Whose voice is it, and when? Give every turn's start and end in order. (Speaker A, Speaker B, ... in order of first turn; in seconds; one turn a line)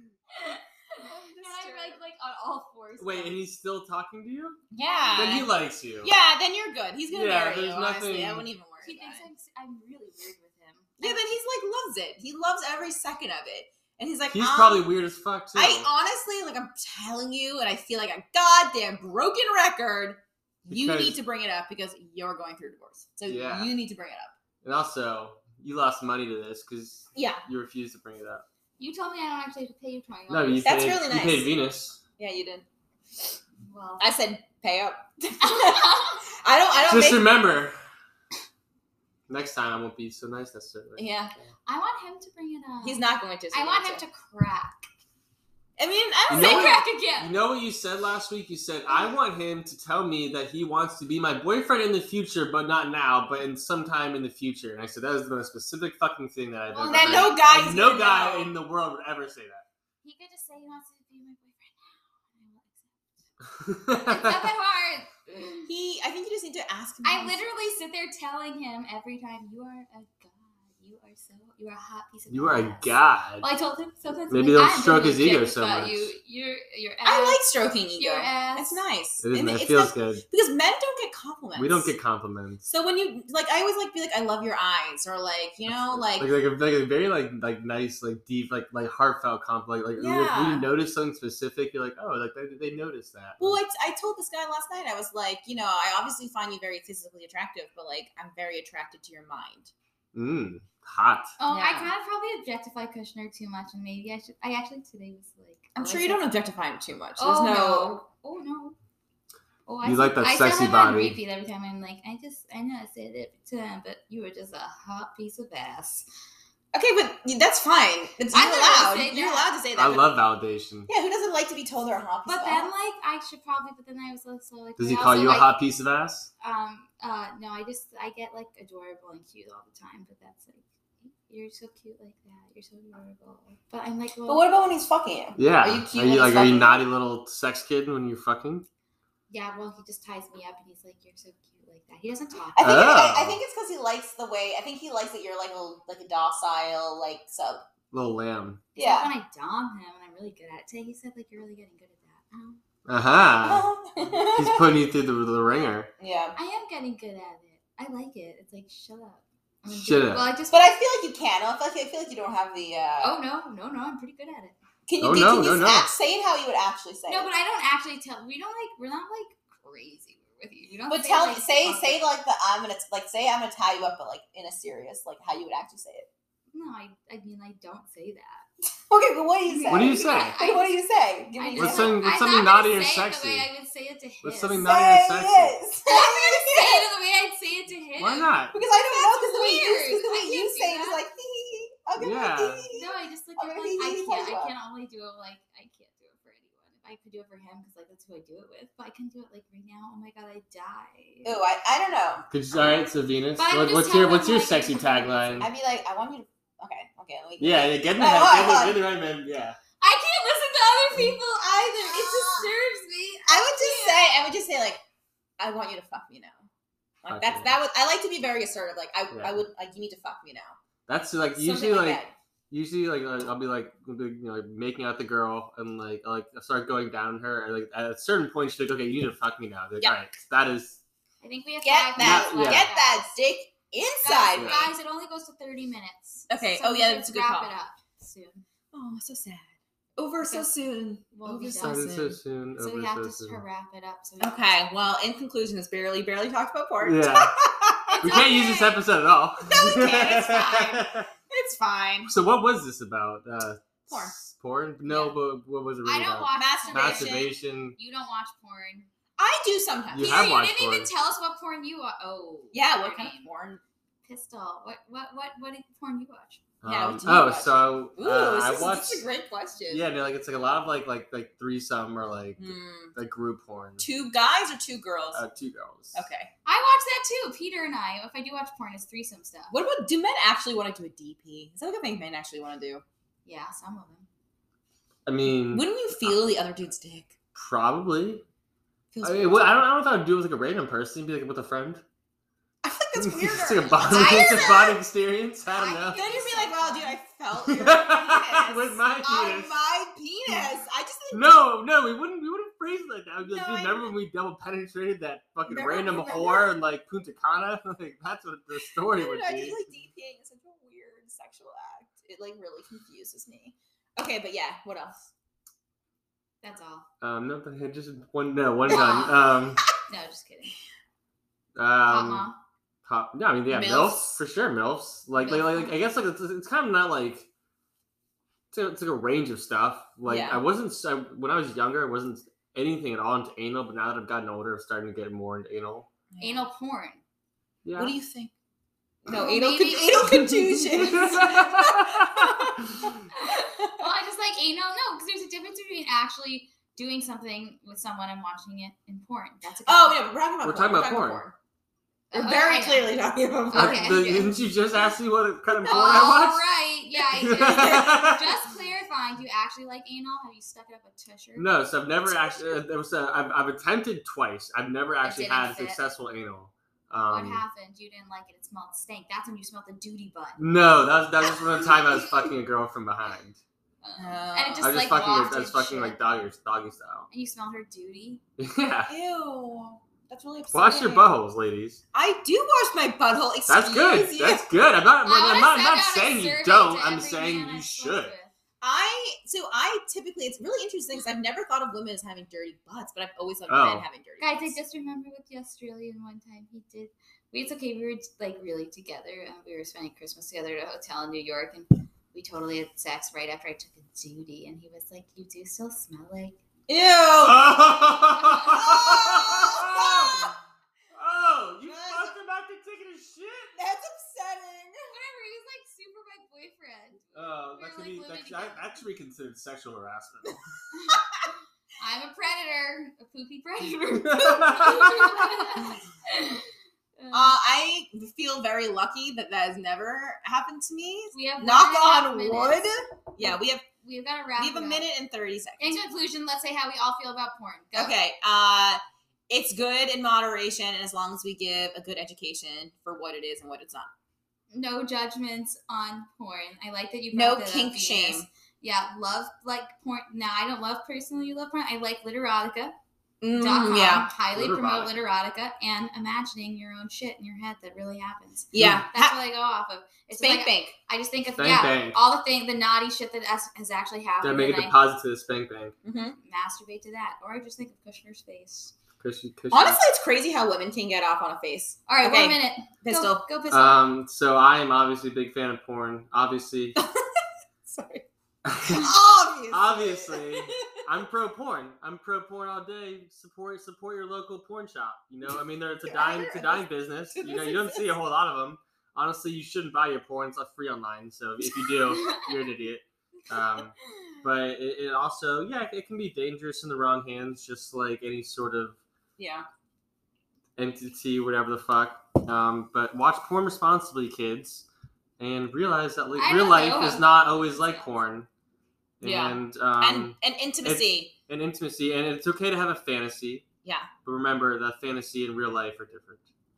Speaker A: 0.4-3.5
Speaker B: 1.0-2.0
Speaker C: 3.0-4.6
Speaker B: 4.7-9.3
Speaker A: 4.7-5.5
Speaker C: 5.2-6.2
Speaker C: 7.1-8.5
Speaker A: 8.8-11.3
Speaker B: 11.0-14.9
Speaker C: 14.3-15.9
Speaker B: 15.6-24.4
Speaker C: 20.7-21.2
Speaker C: 23.3-23.7
Speaker C: 24.6-28.4
Speaker B: 27.1-27.4
Speaker A: 28.8-30.7
Speaker C: 30.3-32.0
Speaker B: 30.6-31.5
Speaker B: 32.2-32.6
Speaker A: 33.7-34.1
Speaker B: 34.0-37.3
Speaker A: 35.4-36.2
Speaker C: 36.8-37.8
Speaker C: 39.3-41.5
Speaker B: 41.0-41.4
Speaker A: 41.7-44.9
Speaker B: 42.8-44.0
Speaker B: 45.8-46.8
Speaker C: 46.3-59.6
Speaker A: 46.3-47.3
Speaker A: 56.7-57.4
Speaker B: 56.9-58.5
Speaker A: 60.0-63.3
Speaker C: 63.6-64.5
Speaker A: 64.0-65.7
Speaker B: 65.7-67.5
Speaker A: 67.0-77.4
Speaker C: 72.3-73.5
Speaker C: 74.3-76.1
Speaker B: 77.0-81.9
Speaker A: 78.0-78.8
Speaker C: 79.2-80.2
Speaker C: 81.6-82.6
Speaker B: 82.6-86.3
Speaker C: 85.7-93.6
Speaker B: 90.0-90.7
Speaker B: 93.4-99.7
Speaker C: 100.1-101.3
Speaker A: 101.4-106.2
Speaker B: 101.5-101.9
Speaker B: 105.8-108.0
Speaker A: 107.2-108.8
Speaker A: 109.7-116.1
Speaker C: 109.8-111.2
Speaker B: 116.7-120.2
Speaker A: 118.3-119.5
Speaker C: 119.8-120.9
Speaker B: 120.9-122.7
Speaker A: 122.3-125.5
Speaker C: 124.8-126.3
Speaker A: 126.4-134.4
Speaker B: 134.3-136.8
Speaker C: 135.4-138.7
Speaker A: 139.3-142.9
Speaker B: 142.6-147.6
Speaker C: 142.6-143.4
Speaker C: 147.9-148.6
Speaker A: 148.8-152.6
Speaker B: 148.8-149.1
Speaker C: 152.9-155.9
Speaker B: 153.4-154.7
Speaker B: 156.0-156.4
Speaker A: 156.4-160.7
Speaker C: 159.7-160.3
Speaker B: 160.5-163.2
Speaker A: 163.0-164.6
Speaker B: 164.9-167.3
Speaker C: 165.0-165.9
Speaker A: 167.1-172.1
Speaker B: 170.9-176.1
Speaker A: 176.5-178.5
Speaker B: 178.9-182.0
Speaker A: 179.5-180.8
Speaker C: 179.7-180.4
Speaker A: 181.3-184.7
Speaker C: 181.6-183.5
Speaker C: 184.2-185.6
Speaker B: 184.6-186.9
Speaker A: 185.9-191.0
Speaker C: 188.0-188.6
Speaker B: 188.5-194.5
Speaker C: 192.0-192.7
Speaker A: 192.7-201.3
Speaker B: 201.2-202.3
Speaker C: 202.3-205.5
Speaker A: 203.4-205.5
Speaker B: 205.4-208.8
Speaker C: 207.4-209.6
Speaker A: 209.8-214.1
Speaker B: 211.2-212.5
Speaker B: 213.3-214.8
Speaker B: 215.4-216.5
Speaker B: 217.0-220.6
Speaker C: 217.1-217.5
Speaker C: 219.1-219.4
Speaker C: 220.9-230.8
Speaker B: 221.4-222.1
Speaker A: 231.2-233.1
Speaker B: 231.6-234.7
Speaker C: 232.0-232.7
Speaker A: 234.0-238.4
Speaker C: 234.3-234.7
Speaker B: 236.3-237.5
Speaker B: 238.7-242.2
Speaker A: 240.2-240.5
Speaker A: 241.1-241.9
Speaker C: 241.6-243.4
Speaker A: 242.6-244.6
Speaker B: 244.2-248.6
Speaker C: 246.8-247.3
Speaker A: 247.9-248.8
Speaker C: 248.0-251.1
Speaker B: 249.4-252.1
Speaker C: 252.1-257.8
Speaker B: 253.9-254.1
Speaker A: 254.9-255.1
Speaker A: 255.8-258.9
Speaker B: 256.3-257.3
Speaker B: 259.2-260.4
Speaker C: 259.9-260.9
Speaker A: 260.0-263.3
Speaker B: 262.5-263.6
Speaker A: 264.0-266.4
Speaker C: 266.6-269.0
Speaker B: 266.6-269.9
Speaker C: 269.7-273.8
Speaker B: 272.4-272.9
Speaker B: 273.8-275.2
Speaker C: 275.1-276.1
Speaker B: 275.9-276.3
Speaker A: 276.4-279.5
Speaker B: 279.5-282.8
Speaker A: 283.3-284.1
Speaker C: 285.1-286.2
Speaker B: 285.4-287.2
Speaker C: 287.4-288.2
Speaker B: 288.9-289.6
Speaker C: 289.0-291.8
Speaker B: 292.6-294.7
Speaker C: 293.0-296.0
Speaker A: 293.8-294.8
Speaker A: 295.5-297.0
Speaker B: 295.9-301.4
Speaker C: 297.4-299.6
Speaker C: 301.1-309.6
Speaker B: 303.2-303.9
Speaker B: 305.5-306.5
Speaker B: 308.9-315.1
Speaker A: 316.4-316.9
Speaker C: 317.0-319.6
Speaker A: 318.7-319.2
Speaker A: 319.9-320.6
Speaker C: 321.6-322.3
Speaker A: 321.9-322.4
Speaker C: 322.9-327.3
Speaker B: 323.5-324.2
Speaker A: 325.2-325.8
Speaker C: 328.5-335.9
Speaker B: 330.1-330.4
Speaker B: 336.1-336.5
Speaker A: 336.2-337.0
Speaker C: 337.6-337.9
Speaker B: 337.8-338.3
Speaker B: 339.1-343.9
Speaker A: 339.1-341.2
Speaker C: 340.8-342.8
Speaker A: 343.1-350.1
Speaker B: 349.6-351.4
Speaker C: 350.4-351.2
Speaker B: 352.1-354.2
Speaker A: 352.1-352.9
Speaker A: 353.5-354.4
Speaker C: 353.5-356.4
Speaker B: 355.5-356.1
Speaker A: 355.7-362.6
Speaker C: 357.2-358.4
Speaker B: 357.3-357.9
Speaker C: 361.4-367.4
Speaker A: 365.0-365.8
Speaker A: 367.1-370.4
Speaker C: 370.4-373.4
Speaker A: 371.6-372.3
Speaker A: 373.8-376.0
Speaker B: 374.0-375.0
Speaker C: 374.6-377.1
Speaker A: 377.1-378.2
Speaker C: 378.4-378.9
Speaker B: 378.9-381.2
Speaker C: 380.5-381.8
Speaker B: 381.9-384.4
Speaker C: 383.5-388.1
Speaker A: 385.1-388.3
Speaker B: 388.6-394.6
Speaker C: 393.5-393.9
Speaker A: 394.2-406.4
Speaker B: 406.7-407.6
Speaker C: 407.2-410.3
Speaker A: 408.1-408.7
Speaker B: 408.7-410.3
Speaker C: 410.9-413.5
Speaker B: 411.6-412.1
Speaker B: 413.6-414.9
Speaker A: 414.9-418.9
Speaker C: 417.1-420.4
Speaker A: 420.7-421.1
Speaker B: 420.9-421.3
Speaker A: 421.8-427.3
Speaker C: 424.0-425.3
Speaker B: 427.1-433.6
Speaker A: 431.1-432.7
Speaker A: 433.2-434.8
Speaker B: 434.4-435.8
Speaker A: 435.6-437.9
Speaker B: 437.7-443.9
Speaker A: 444.5-452.8
Speaker B: 447.1-448.3
Speaker B: 453.2-454.1
Speaker A: 453.3-464.8
Speaker C: 454.3-454.9
Speaker B: 458.5-459.1
Speaker C: 458.6-458.9
Speaker B: 460.2-460.8
Speaker C: 461.4-462.0
Speaker C: 464.2-465.8
Speaker B: 465.8-466.2
Speaker A: 466.2-468.8
Speaker C: 469.0-469.8
Speaker B: 469.5-473.2
Speaker A: 471.9-473.9
Speaker C: 473.5-476.8
Speaker B: 476.8-478.1
Speaker C: 478.4-478.9
Speaker B: 478.7-480.8
Speaker C: 479.5-498.8
Speaker B: 485.8-487.9
Speaker A: 491.9-492.3
Speaker B: 499.2-499.5
Speaker C: 500.6-504.7
Speaker C: 505.2-508.3
Speaker A: 506.2-508.0
Speaker C: 509.0-513.5
Speaker B: 509.0-511.1
Speaker B: 513.6-513.9
Speaker C: 514.0-516.2